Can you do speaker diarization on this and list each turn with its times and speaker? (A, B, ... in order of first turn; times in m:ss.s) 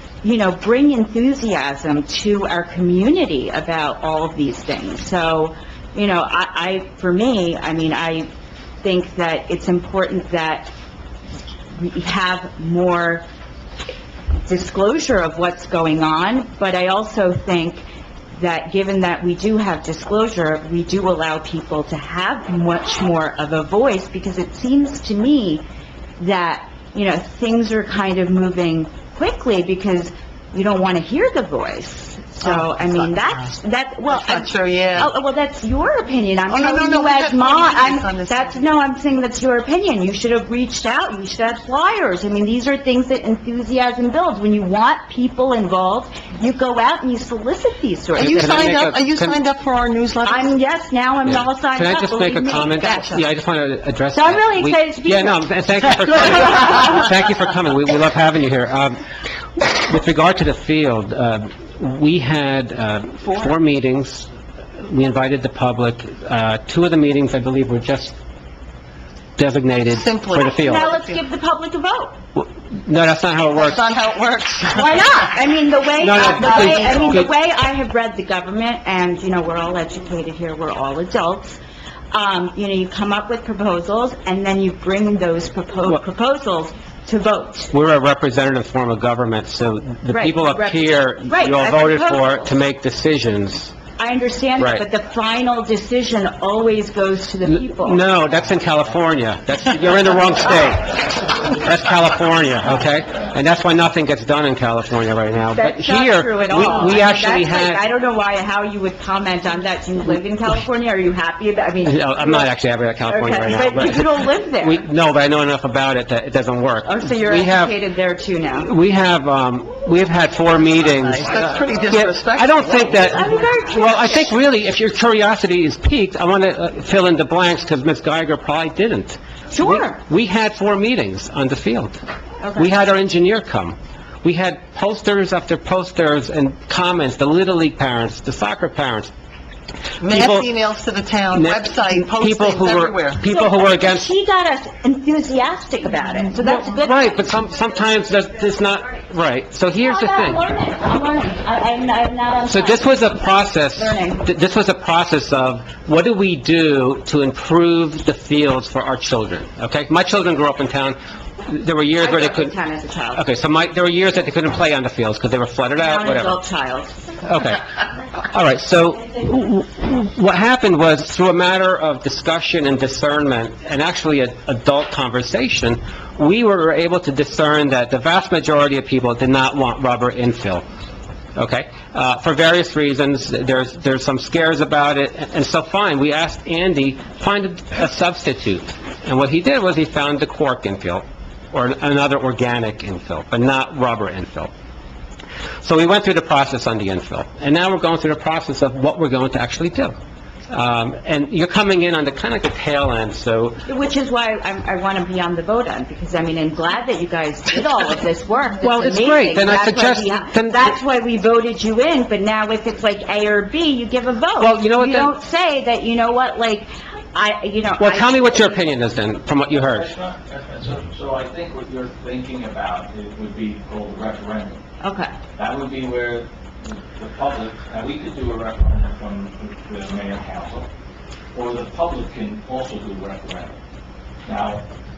0:00.2-0:08.3 A
0:08.8-0:10.7 A
0:11.8-0:13.2 A
0:14.5-0:17.8 A
0:18.4-0:25.6 A
0:26.2-0:48.9 A
0:32.4-0:33.5 B
0:34.1-0:35.1 B
0:36.5-0:38.6 B
0:48.2-0:49.4 C
0:48.2-0:50.5 B
0:50.3-0:53.2 A
0:51.3-0:59.0 C
0:54.1-0:57.0 A
0:59.6-1:04.3 C
1:04.8-1:08.2 C
1:09.4-1:11.0 C
1:09.9-1:11.2 B
1:10.4-1:12.2 A
1:12.4-1:13.8 C
1:13.6-1:15.3 B
1:14.7-1:21.6 A
1:16.0-1:17.3 C
1:16.2-1:17.1 B
1:22.1-1:27.7 A
1:27.7-1:33.7 C
1:30.1-1:32.5 A
1:34.0-1:38.0 A
1:34.6-1:34.8 C
1:37.5-1:47.8 C
1:45.5-1:52.5 A
1:51.8-1:57.8 C
1:53.1-1:54.8 A
1:56.8-1:58.7 A
1:58.6-2:12.0 C
2:01.0-2:03.2 B
2:02.9-2:04.2 A
2:09.5-2:10.0 A
2:12.4-2:12.7 A
2:12.6-2:19.1 C
2:20.0-2:23.3 B
2:20.0-2:20.5 C
2:21.3-2:24.1 C
2:23.3-2:27.3 A
2:26.4-2:30.4 C
2:29.8-2:33.2 A
2:32.5-2:42.5 C
2:33.7-2:34.3 A
2:42.0-2:43.2 A
2:43.1-2:46.4 C
2:45.8-2:47.0 A
2:47.3-2:47.6 C
2:48.3-3:00.6 C
3:01.4-3:14.5 C
3:15.6-3:20.0 C
3:20.5-3:23.6 C
3:23.7-3:38.7 A
3:28.6-3:30.7 C
3:34.4-3:35.1 C
3:37.8-3:39.9 C
3:39.4-3:44.6 D
3:44.8-3:45.2 A
3:45.4-3:50.7 D
3:51.3-3:53.6 D
3:54.2-3:54.6 D